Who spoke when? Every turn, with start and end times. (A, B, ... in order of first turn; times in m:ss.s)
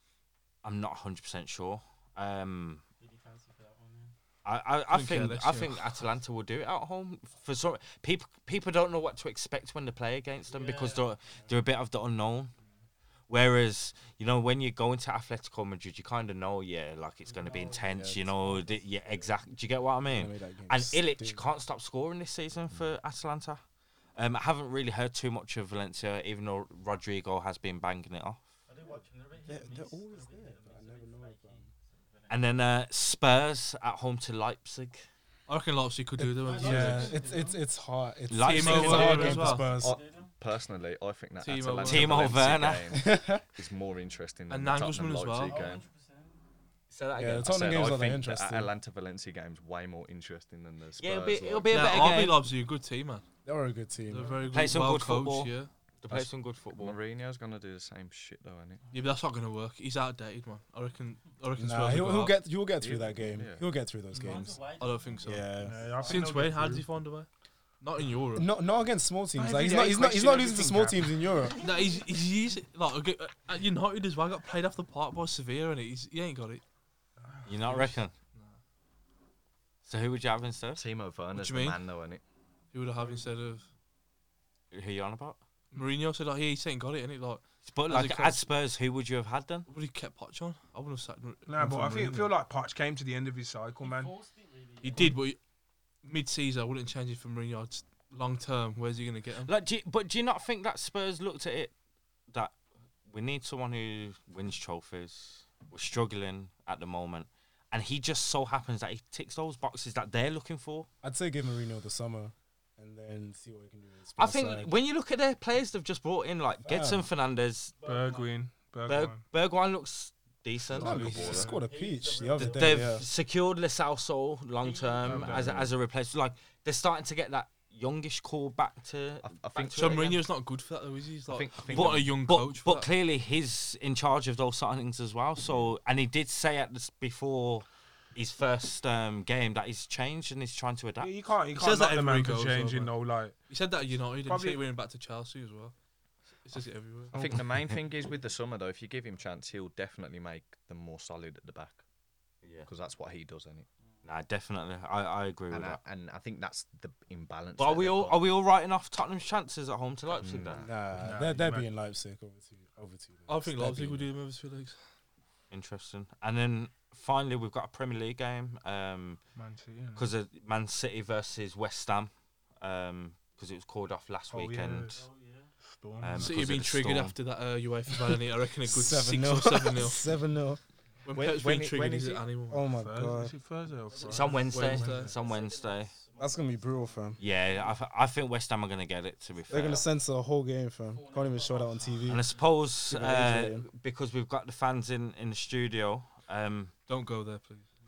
0:00.6-0:02.8 A
0:03.0-0:04.1 B
0:04.4-0:12.5 A
0:04.9-0:05.9 C
0:10.5-0:11.5 B
0:13.3-0:23.6 A
0:17.2-0:19.4 B
0:17.9-0:18.6 D
0:20.1-0:21.4 D
0:24.2-0:28.4 A
0:28.7-0:32.4 B
0:29.5-0:31.7 D
0:32.3-0:35.1 A
0:35.5-0:37.2 C
0:36.2-0:40.0 D
0:36.4-0:37.6 B
0:38.3-0:39.4 A
0:38.4-0:39.7 C
0:39.0-0:40.3 B
0:39.8-0:45.8 E
0:41.4-0:42.3 C
0:41.8-0:42.9 A
0:42.9-0:43.4 D
0:44.5-0:45.6 C
0:45.4-0:46.4 B
0:46.9-0:47.8 A
0:47.2-0:48.7 D
0:47.4-0:52.1 E
0:51.0-0:52.4 A
0:51.7-0:53.2 C
0:53.4-0:54.3 D
0:54.1-0:55.7 C
0:54.1-0:54.8 B
0:54.5-0:57.0 A
0:56.8-0:58.8 E
0:58.9-1:02.4 C
1:01.6-1:04.6 D
1:02.8-1:03.7 E
1:04.1-1:04.5 F
1:04.1-1:06.3 B
1:04.8-1:05.4 C
1:05.2-1:06.0 D
1:05.6-1:06.9 F
1:06.0-1:07.3 C
1:07.8-1:08.5 C
1:08.3-1:11.6 D
1:09.3-1:11.1 F
1:11.4-1:12.0 B
1:11.6-1:16.6 C
1:17.3-1:17.8 F
1:17.4-1:18.1 A
1:17.7-1:18.6 C
1:19.9-1:20.8 A
1:20.8-1:22.2 E
1:21.3-1:21.8 C
1:22.7-1:23.6 C
1:24.7-1:25.4 A
1:25.7-1:28.4 C
1:27.6-1:29.7 A
1:29.7-1:32.3 C
1:31.4-1:34.1 F
1:33.8-1:35.1 B
1:34.8-1:35.4 C
1:36.0-1:39.5 C
1:39.4-1:41.7 A
1:43.1-1:50.9 A
1:51.0-1:54.7 D
1:54.2-1:57.7 A
1:56.6-1:57.1 D
1:57.8-1:58.4 B
1:57.8-1:59.2 F
1:58.8-2:01.2 A
2:00.8-2:01.5 E
2:00.8-2:03.0 D
2:00.8-2:01.6 F
2:01.1-2:03.1 B
2:02.3-2:10.2 A
2:04.6-2:05.3 B
2:05.0-2:05.7 E
2:05.1-2:05.5 F
2:09.2-2:10.1 E
2:09.7-2:12.9 C
2:11.3-2:12.2 E
2:11.7-2:21.1 A
2:15.4-2:15.7 E
2:21.0-2:23.4 F
2:21.5-2:22.9 C
2:23.5-2:25.7 C
2:24.2-2:24.6 F
2:26.4-2:27.2 C
2:27.1-2:27.4 F
2:27.1-2:31.8 E
2:32.6-2:33.7 E
2:34.0-2:35.8 A
2:35.5-2:38.2 E
2:37.6-2:40.6 A
2:40.1-2:40.8 E
2:40.5-2:44.1 D
2:40.9-2:41.7 F
2:43.3-2:44.8 C
2:45.5-2:49.2 A
2:49.3-2:50.1 F
2:49.9-2:54.9 A
2:54.3-2:55.0 F
2:54.9-2:55.5 B
2:55.6-2:56.4 F
2:56.0-2:57.1 A
2:56.2-3:00.0 C
2:58.6-3:00.6 D
3:01.0-3:02.7 C
3:01.1-3:02.2 E
3:02.5-3:03.3 D
3:02.6-3:05.1 F
3:03.9-3:07.8 B
3:04.0-3:05.9 A
3:04.5-3:05.1 C
3:06.2-3:07.2 D
3:07.2-3:09.8 A
3:09.4-3:09.9 B
3:09.5-3:12.2 D
3:10.9-3:12.6 B
3:12.0-3:16.7 A
3:12.9-3:13.6 D
3:16.9-3:17.7 C